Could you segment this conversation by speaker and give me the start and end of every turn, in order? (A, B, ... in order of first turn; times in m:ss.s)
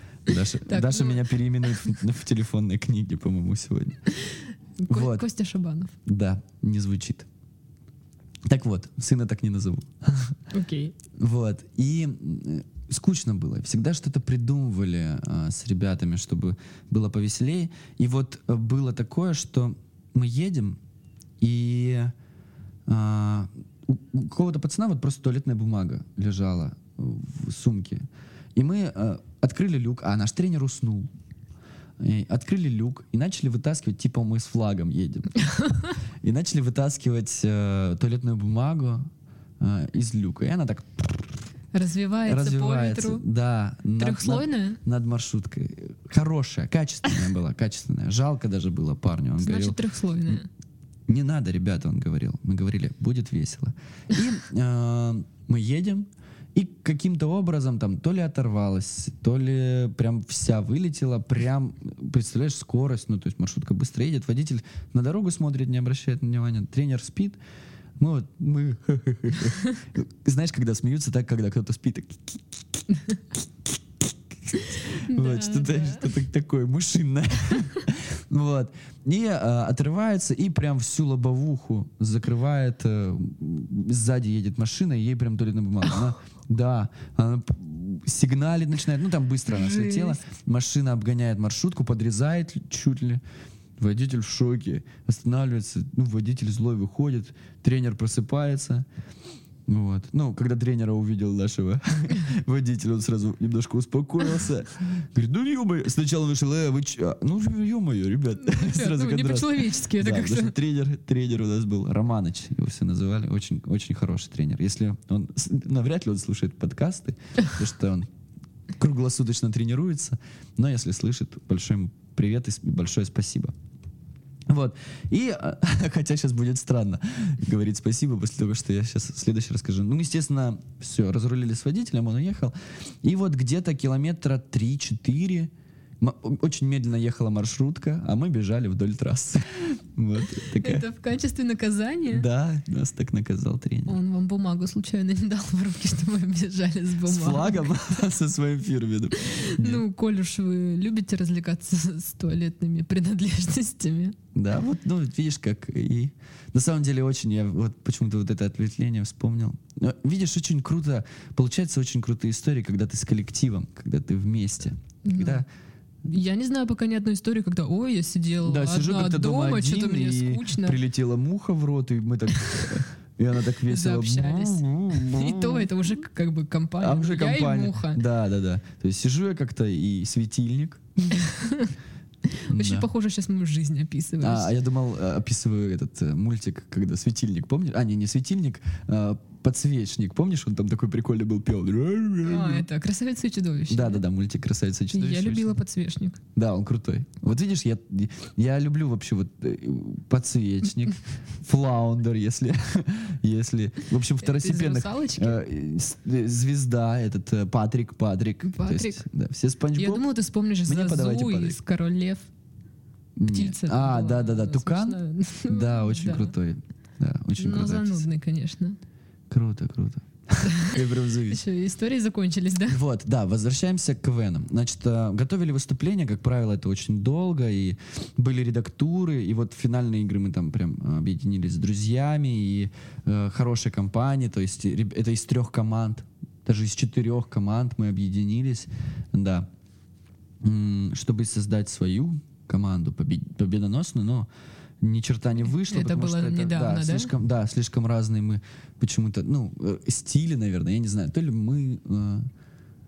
0:00.3-0:04.0 A
0:00.7-0:01.3 B
0:04.1-0:05.9 B
0:04.9-0:05.2 A
0:06.1-0:07.3 A
0:08.5-0:10.4 A
0:10.5-0:10.9 B
0:11.2-0:20.8 A
0:21.4-0:22.1 A
0:22.9-0:31.1 A
0:32.0-0:35.3 A
0:35.6-0:35.9 B
0:36.2-0:39.1 A
0:39.6-0:41.4 A
0:41.7-0:43.2 B
0:42.3-0:50.4 A
0:44.0-0:44.8 B
0:49.4-0:50.5 B
0:51.1-1:07.4 A
1:08.0-1:12.6 A
1:14.9-1:33.2 A
1:14.9-1:16.1 B
1:29.5-1:30.2 B
1:33.8-1:38.9 A
1:39.7-1:58.1 A
1:48.4-1:50.6 B
1:58.8-2:03.5 A
2:04.5-2:20.8 A
2:20.6-2:22.3 B
2:22.1-2:24.0 A
2:23.9-2:27.7 B
2:27.0-2:29.8 A
2:29.2-2:34.2 B
2:34.3-2:45.5 A
2:45.0-2:45.4 B
2:46.0-2:50.8 B
2:48.4-2:55.7 A
2:53.6-2:58.0 B
2:56.8-3:01.3 A
3:01.2-3:01.7 B
3:02.3-3:04.5 B
3:02.5-3:02.9 A
3:04.2-3:12.7 A
3:12.2-3:14.0 B
3:13.7-3:15.6 A
3:14.9-3:16.2 B
3:16.4-3:30.0 A
3:24.2-3:25.4 B
3:28.4-3:29.0 B
3:29.8-3:32.3 B
3:30.7-3:31.6 A
3:33.2-3:38.0 A
3:33.3-3:36.3 B
3:37.4-3:38.8 B
3:39.3-3:41.4 A
3:40.4-3:42.8 B
3:42.7-3:59.5 A
4:00.4-4:04.3 A
4:04.8-4:12.3 A
4:05.5-4:07.1 B